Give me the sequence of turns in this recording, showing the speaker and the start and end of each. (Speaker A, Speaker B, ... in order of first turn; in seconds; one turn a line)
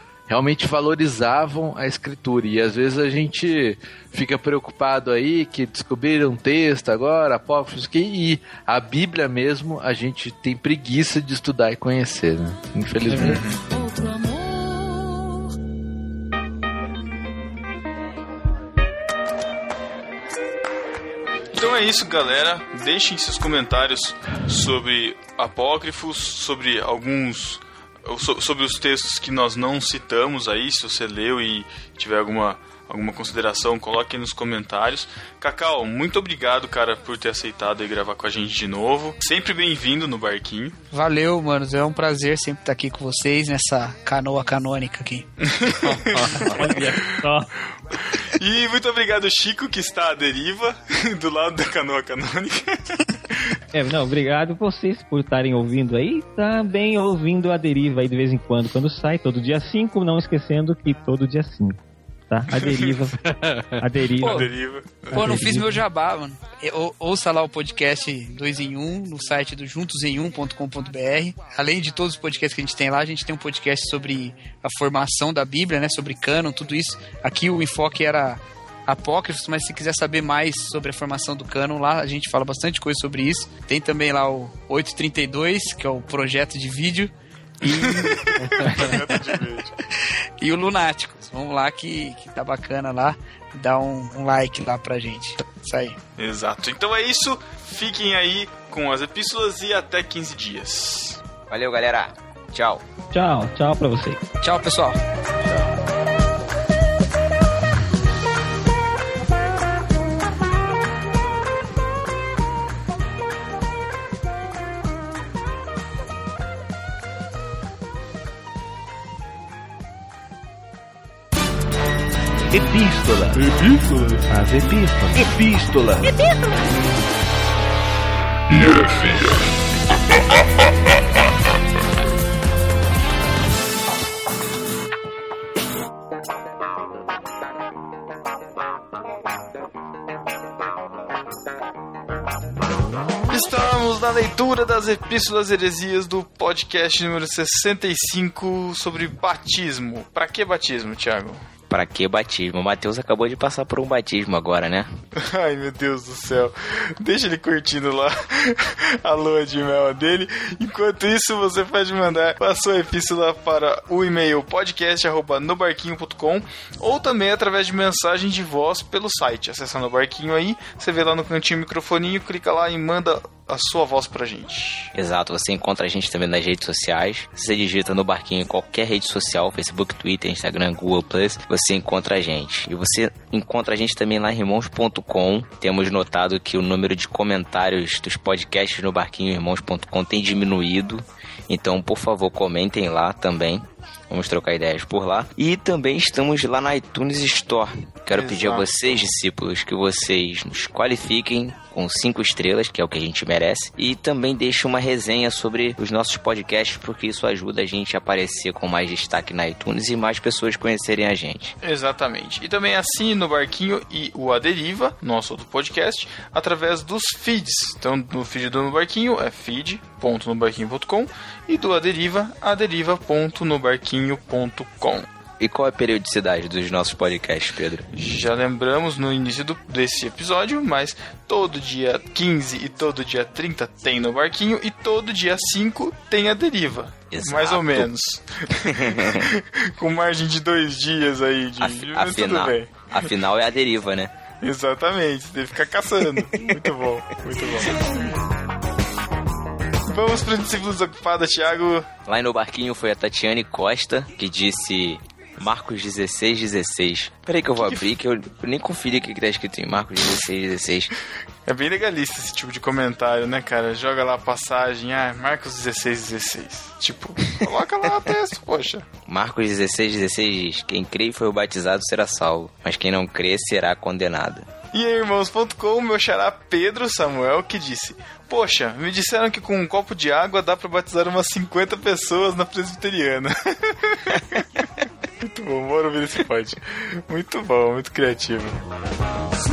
Speaker A: 0.3-13.4
Speaker B: 13.1-13.6
Speaker B: 21.5-40.8
Speaker C: 40.9-45.3
Speaker B: 45.4-47.0
Speaker A: 45.9-46.3
Speaker D: 46.1-47.5
Speaker B: 47.9-53.6
Speaker D: 53.7-64.5
Speaker B: 62.5-63.0
Speaker A: 63.2-63.8
Speaker C: 64.2-64.5
Speaker B: 64.2-65.4
Speaker D: 65.1-65.8
Speaker C: 65.1-89.0
Speaker B: 87.7-89.7
Speaker C: 90.4-96.0
Speaker B: 96.2-101.2
Speaker E: 101.5-102.8
Speaker D: 103.1-104.2
Speaker C: 104.4-105.0
Speaker F: 122.5-126.2
Speaker F: 128.5-129.4
Speaker B: 143.3-151.4
Speaker E: 151.7-154.9
Speaker B: 155.2-174.9
Speaker E: 174.9-211.5
Speaker B: 198.1-199.1
Speaker B: 211.6-225.1
Speaker E: 225.4-227.9
Speaker B: 227.9-243.1
Speaker E: 237.1-237.9
Speaker E: 238.7-239.3
Speaker E: 241.6-244.1
Speaker B: 244.4-247.9
Speaker B: 249.9-251.9
Speaker E: 252.1-260.9
Speaker B: 257.6-257.8
Speaker B: 261.4-268.9
Speaker E: 267.4-267.9
Speaker E: 269.1-274.5
Speaker B: 274.7-284.6
Speaker B: 285.2-288.6